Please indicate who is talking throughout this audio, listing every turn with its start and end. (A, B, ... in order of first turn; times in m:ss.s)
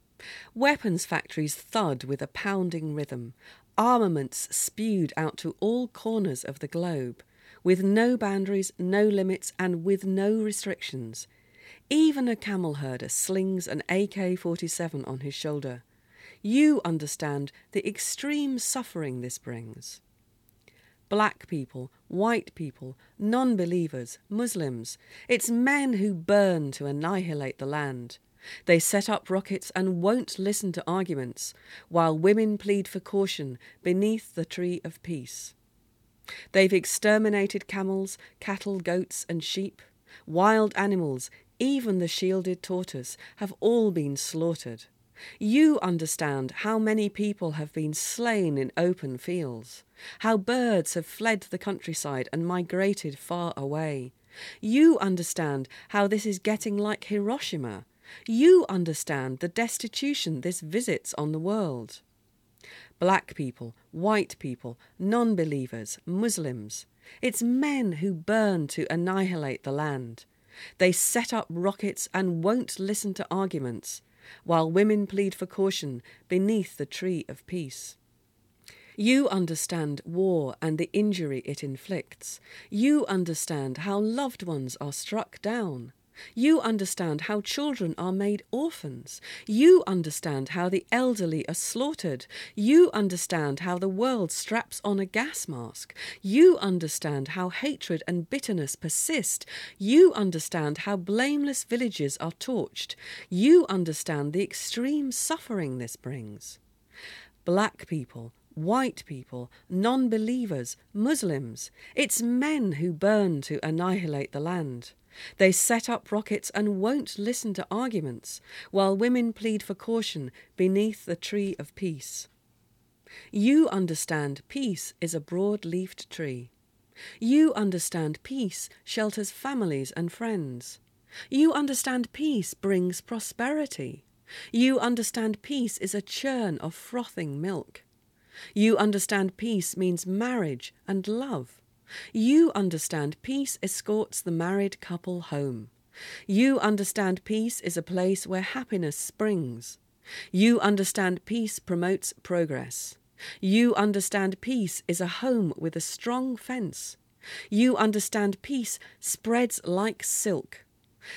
0:00.5-0:11.3 A
0:11.9-0:15.8 A
0:16.4-0:20.0 A
0:21.1-0:35.5 A
0:36.5-1:02.0 A
1:03.0-1:10.3 A
1:10.8-1:18.0 A
1:19.0-1:46.6 A
1:47.4-2:02.3 A
2:03.3-2:06.5 A
2:07.2-2:10.8 A
2:11.3-2:17.8 A
2:18.5-2:21.6 A
2:22.1-2:25.7 A
2:26.3-2:29.8 A
2:30.3-2:37.0 A
2:37.5-2:40.7 A